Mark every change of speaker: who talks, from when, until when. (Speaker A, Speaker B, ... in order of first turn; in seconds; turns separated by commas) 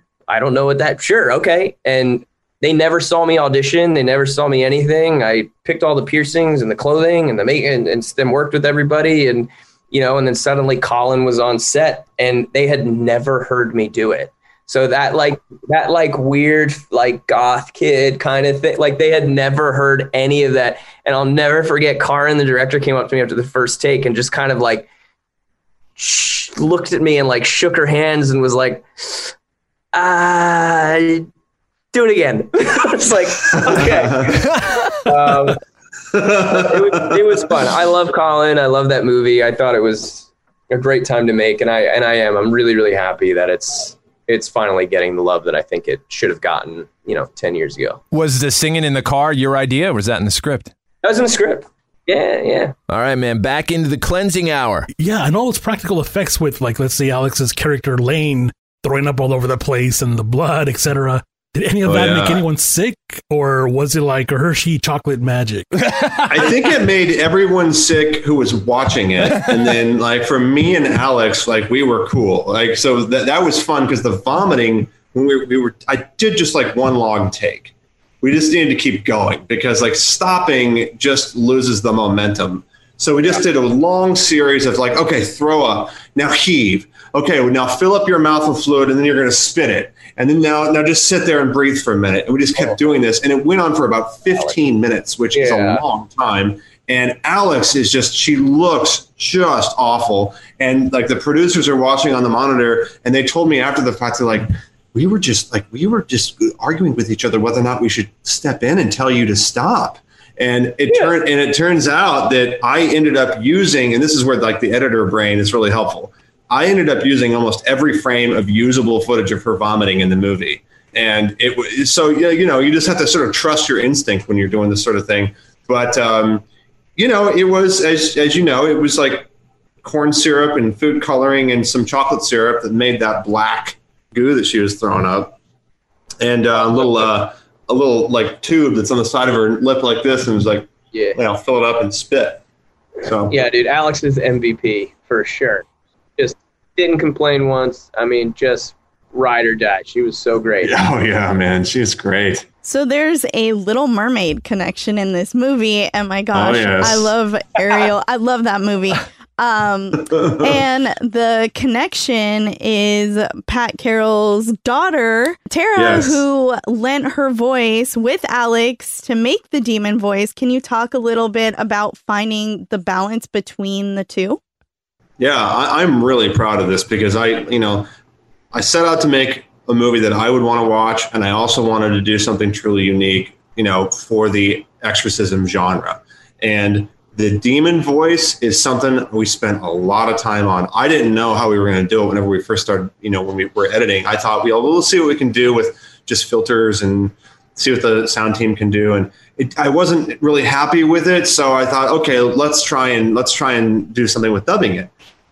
Speaker A: 0.3-24.9, Speaker A: 26.0-29.3, Speaker A: 29.9-31.3, Speaker A: 31.9-34.5, Speaker B: 33.7-34.4, Speaker C: 34.5-34.9, Speaker A: 35.0-35.6, Speaker B: 36.1-37.2, Speaker A: 36.5-48.0, Speaker C: 48.1-50.7, Speaker A: 51.0-52.7, Speaker C: 52.9-54.9, Speaker D: 55.0-65.7, Speaker B: 61.8-62.4, Speaker C: 65.9-66.3, Speaker B: 66.3-126.5, Speaker A: 95.3-95.8, Speaker B: 127.0-129.3, Speaker B: 129.8-135.4, Speaker B: 136.2-142.4, Speaker A: 136.5-137.1, Speaker A: 140.9-141.2, Speaker B: 143.0-143.4, Speaker A: 143.3-145.7, Speaker A: 146.2-150.8, Speaker B: 150.6-152.5, Speaker E: 152.7-174.4, Speaker B: 156.3-157.1, Speaker B: 160.1-160.6, Speaker B: 165.8-166.2, Speaker B: 175.2-177.9, Speaker B: 178.5-204.9